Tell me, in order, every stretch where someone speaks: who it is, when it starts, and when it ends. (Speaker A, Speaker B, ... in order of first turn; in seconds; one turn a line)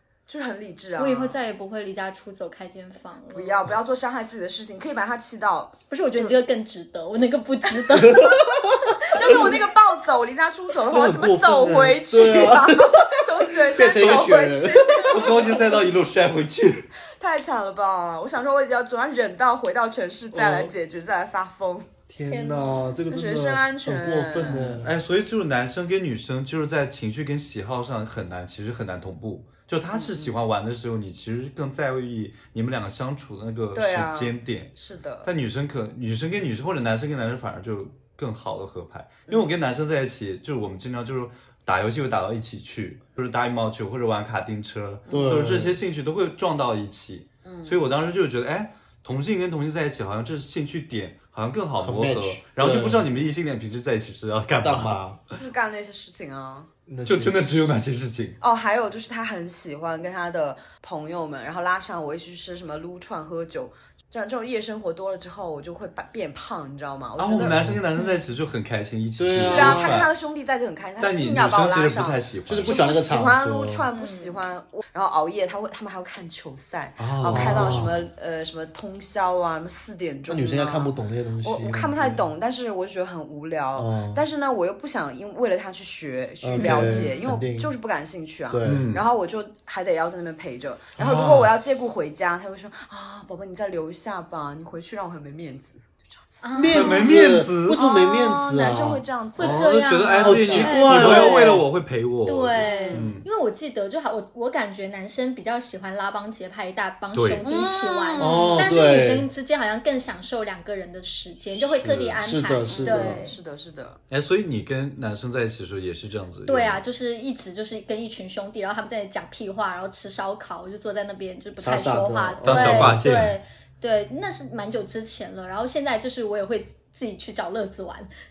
Speaker A: 0.3-1.4
Speaker B: 1.0-3.7
Speaker A: 3.3-6.4
Speaker B: 5.9-8.4
Speaker C: 8.1-9.6
Speaker A: 9.1-15.8
Speaker B: 9.1-9.5
Speaker C: 10.9-15.2
Speaker D: 13.9-14.3
Speaker D: 15.0-16.9
Speaker A: 17.2-21.9
Speaker C: 20.3-20.7
Speaker C: 22.1-25.0
Speaker B: 22.3-22.9
Speaker A: 23.1-24.8
Speaker D: 24.4-34.7
Speaker A: 29.9-30.4
Speaker A: 33.8-35.3
Speaker D: 35.2-55.4
Speaker A: 39.3-39.5
Speaker A: 45.1-45.5
Speaker C: 45.1-45.8
Speaker A: 47.5-47.8
Speaker C: 51.8-53.1
Speaker C: 54.6-55.2
Speaker A: 55.4-56.7
Speaker C: 56.9-57.7
Speaker D: 57.1-58.4
Speaker A: 58.4-67.6
Speaker D: 67.2-70.1
Speaker C: 67.5-67.8
Speaker C: 69.2-70.0
Speaker A: 69.3-96.4
Speaker D: 71.0-72.8
Speaker C: 72.5-73.9
Speaker B: 73.9-74.4
Speaker D: 77.0-78.0
Speaker C: 77.3-78.0
Speaker C: 80.3-82.2
Speaker C: 83.8-84.2
Speaker C: 86.4-87.7
Speaker D: 86.6-87.1
Speaker B: 86.7-87.2
Speaker C: 88.5-88.9
Speaker D: 88.7-89.0
Speaker D: 91.0-91.5
Speaker B: 96.4-97.2
Speaker C: 96.6-99.0
Speaker D: 96.6-97.8
Speaker A: 97.7-99.8
Speaker B: 99.4-101.6
Speaker D: 99.4-103.3
Speaker C: 100.2-101.7
Speaker A: 100.5-101.3
Speaker B: 102.3-113.4
Speaker A: 102.6-103.1
Speaker D: 107.1-107.4
Speaker A: 107.4-108.7
Speaker C: 108.2-109.3
Speaker D: 111.7-112.2
Speaker C: 112.2-113.2
Speaker A: 112.7-114.0
Speaker D: 114.1-116.8
Speaker B: 116.5-128.1
Speaker C: 121.6-123.1
Speaker D: 122.4-123.4